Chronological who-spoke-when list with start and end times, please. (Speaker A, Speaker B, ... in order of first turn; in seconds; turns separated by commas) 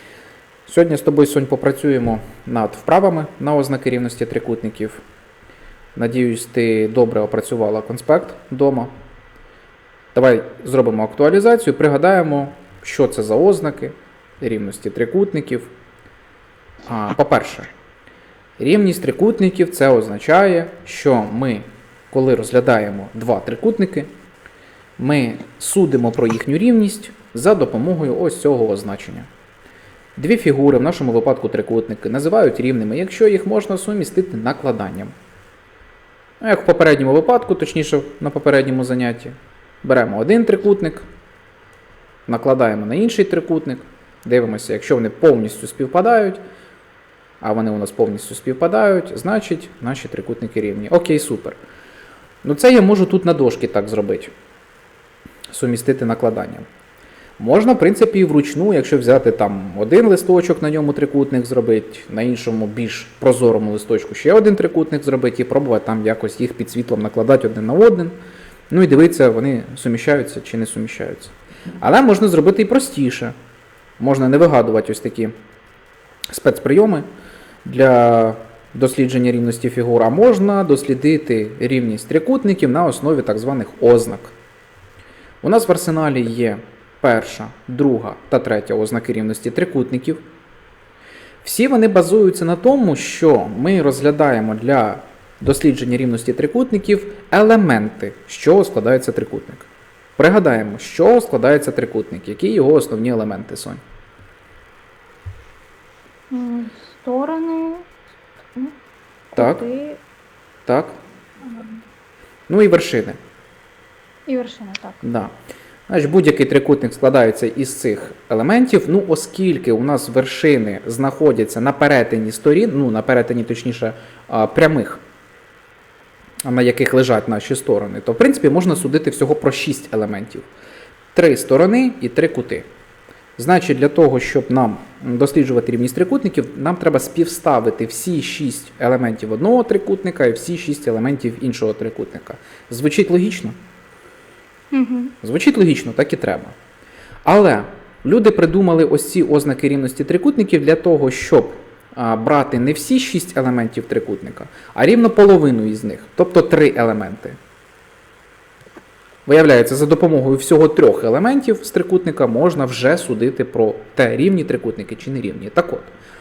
Speaker A: 0.7-5.0, Speaker A: 5.9-8.9, Speaker A: 10.1-15.7, Speaker A: 16.9-17.7, Speaker A: 18.6-24.1, Speaker A: 25.0-29.3, Speaker A: 30.1-35.1, Speaker A: 36.4-41.0, Speaker A: 42.3-46.4, Speaker A: 47.4-51.6, Speaker A: 52.4-54.3, Speaker A: 55.5-56.6, Speaker A: 57.4-68.2, Speaker A: 68.7-73.3, Speaker A: 74.0-75.3, Speaker A: 76.3-77.0, Speaker A: 77.6-84.3, Speaker A: 85.4-90.2, Speaker A: 91.4-103.8, Speaker B: 106.3-107.9, Speaker B: 109.3-110.0, Speaker A: 109.3-109.6, Speaker A: 110.7-111.0, Speaker B: 111.4-111.7, Speaker A: 112.5-113.2, Speaker B: 114.3-115.0, Speaker A: 115.0-115.3, Speaker A: 115.9-125.0, Speaker A: 126.4-130.5, Speaker A: 131.1-132.7, Speaker A: 133.4-143.5, Speaker B: 144.7-145.1, Speaker A: 145.2-146.5, Speaker A: 147.2-157.4, Speaker A: 159.2-165.9